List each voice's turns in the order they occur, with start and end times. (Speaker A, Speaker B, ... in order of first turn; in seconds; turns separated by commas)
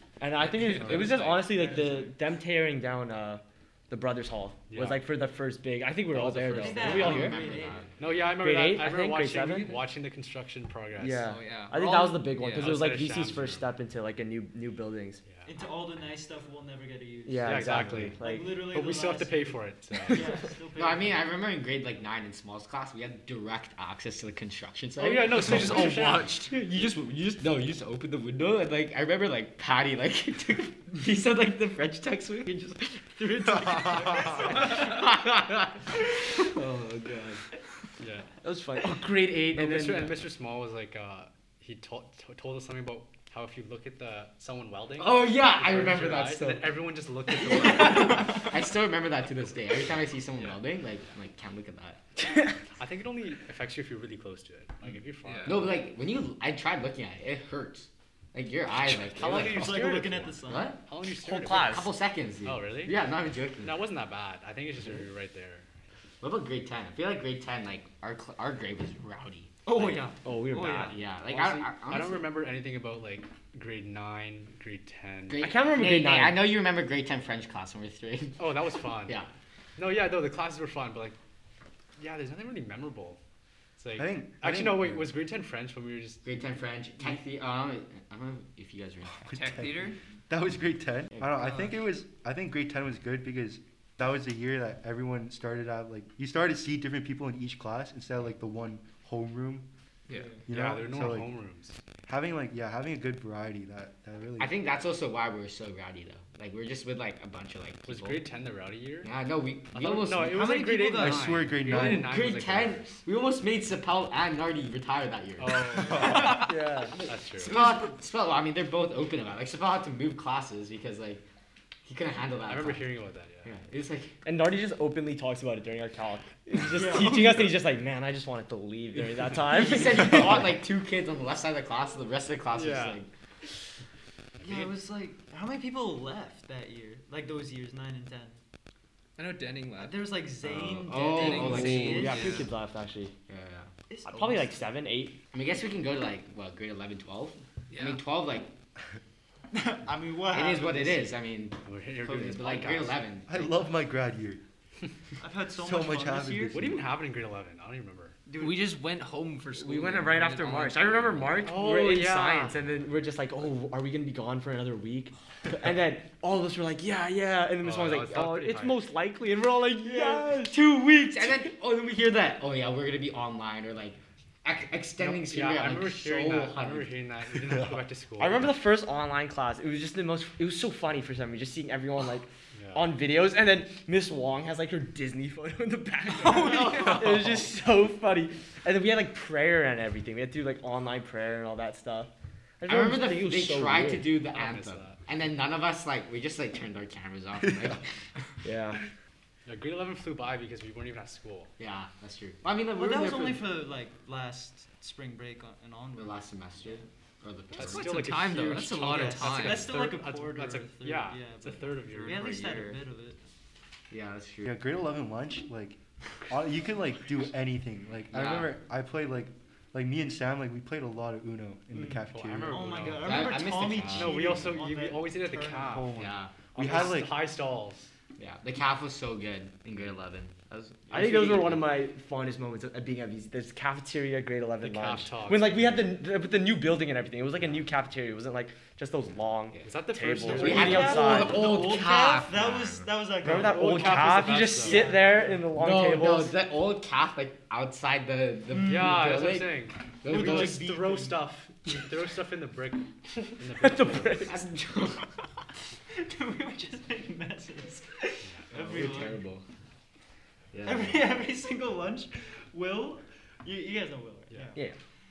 Speaker A: 0.2-7.4, Speaker B: 0.4-1.6, Speaker C: 0.8-1.1, Speaker D: 1.4-2.2, Speaker C: 4.7-5.1, Speaker C: 6.1-11.3, Speaker D: 6.5-7.9, Speaker E: 6.5-7.9, Speaker A: 8.4-9.8, Speaker A: 11.0-15.2, Speaker B: 11.1-12.8, Speaker C: 12.5-13.7, Speaker C: 15.3-15.5, Speaker D: 15.4-21.4, Speaker A: 17.2-18.6, Speaker C: 17.4-20.4, Speaker E: 20.7-37.4, Speaker C: 25.0-26.3, Speaker B: 25.3-26.5, Speaker C: 33.9-35.0, Speaker C: 38.0-38.3, Speaker A: 38.4-40.1, Speaker E: 38.8-40.1, Speaker C: 39.5-48.4, Speaker E: 45.0-46.7, Speaker E: 47.3-52.5, Speaker C: 50.4-50.6, Speaker C: 52.8-55.8, Speaker B: 55.2-55.7, Speaker E: 55.4-59.8, Speaker C: 58.9-61.8, Speaker D: 59.3-60.8, Speaker E: 60.4-60.8, Speaker A: 61.1-61.9, Speaker E: 61.4-63.8, Speaker C: 62.4-63.0, Speaker C: 63.6-65.7, Speaker E: 66.2-70.1, Speaker D: 69.6-71.0, Speaker A: 70.2-71.0, Speaker E: 70.8-72.3, Speaker C: 71.2-75.4, Speaker E: 75.3-78.5, Speaker A: 75.4-76.5, Speaker C: 78.4-79.2, Speaker C: 79.8-81.2, Speaker C: 82.0-83.2, Speaker C: 83.8-86.2, Speaker F: 84.0-85.1, Speaker E: 86.2-89.3, Speaker F: 89.3-99.7, Speaker B: 89.3-90.0, Speaker B: 100.1-100.4, Speaker D: 100.1-100.4, Speaker F: 100.5-101.3, Speaker C: 100.5-101.8, Speaker F: 102.1-104.5, Speaker E: 104.4-108.2, Speaker C: 107.8-109.1, Speaker E: 109.0-110.5, Speaker C: 109.7-113.0, Speaker D: 110.3-111.4, Speaker F: 111.0-112.2, Speaker E: 111.6-121.2, Speaker C: 115.4-116.5, Speaker A: 116.3-116.9, Speaker C: 117.0-117.5, Speaker D: 117.4-117.9, Speaker E: 121.8-122.9, Speaker C: 122.5-123.5, Speaker E: 123.4-124.2, Speaker A: 124.2-130.5, Speaker D: 126.7-127.6, Speaker E: 129.4-133.1, Speaker C: 132.5-133.0, Speaker D: 134.4-138.4, Speaker B: 139.2-140.2, Speaker D: 139.8-142.4, Speaker E: 140.8-142.2, Speaker B: 140.9-142.4, Speaker A: 141.7-143.1, Speaker E: 143.3-143.7, Speaker D: 143.9-144.6, Speaker A: 144.0-145.2, Speaker E: 145.3-148.5, Speaker B: 147.7-148.0, Speaker D: 149.5-151.2, Speaker E: 150.3-153.5, Speaker C: 151.6-153.0, Speaker F: 153.2-154.4, Speaker D: 155.2-156.6, Speaker F: 155.6-156.8, Speaker C: 156.5-158.2, Speaker D: 158.3-158.7, Speaker B: 158.3-161.5, Speaker A: 159.5-170.6, Speaker C: 161.4-162.5, Speaker C: 167.6-168.9, Speaker E: 170.4-176.9, Speaker C: 175.0-178.6, Speaker A: 178.2-192.1, Speaker C: 182.6-182.9, Speaker B: 186.4-186.8, Speaker A: 192.6-194.1, Speaker E: 192.7-197.8, Speaker C: 194.3-195.0, Speaker F: 197.5-197.7, Speaker A: 198.4-198.8, Speaker C: 199.4-201.5, Speaker E: 201.6-203.5, Speaker D: 202.7-206.8, Speaker E: 205.9-208.1, Speaker B: 207.5-209.8, Speaker C: 207.6-212.5, Speaker D: 208.7-213.2, Speaker B: 211.9-212.8, Speaker E: 213.9-214.6, Speaker F: 214.4-222.7, Speaker E: 218.1-218.5, Speaker D: 221.7-225.8, Speaker C: 222.1-226.0, Speaker E: 223.0-224.5, Speaker F: 225.6-227.2, Speaker E: 226.0-226.3, Speaker C: 226.6-227.9, Speaker E: 228.2-231.7, Speaker A: 230.9-241.4, Speaker C: 234.6-235.8, Speaker C: 239.6-241.1, Speaker D: 240.2-245.5, Speaker E: 240.3-242.9, Speaker A: 243.2-246.4, Speaker C: 243.2-245.1, Speaker E: 245.5-250.7, Speaker D: 248.5-249.0, Speaker C: 248.6-254.3, Speaker D: 250.0-251.2, Speaker A: 253.6-254.4, Speaker E: 254.2-255.1, Speaker D: 255.9-259.2, Speaker C: 258.2-258.5, Speaker E: 258.5-259.4, Speaker E: 260.5-261.1, Speaker D: 260.6-264.6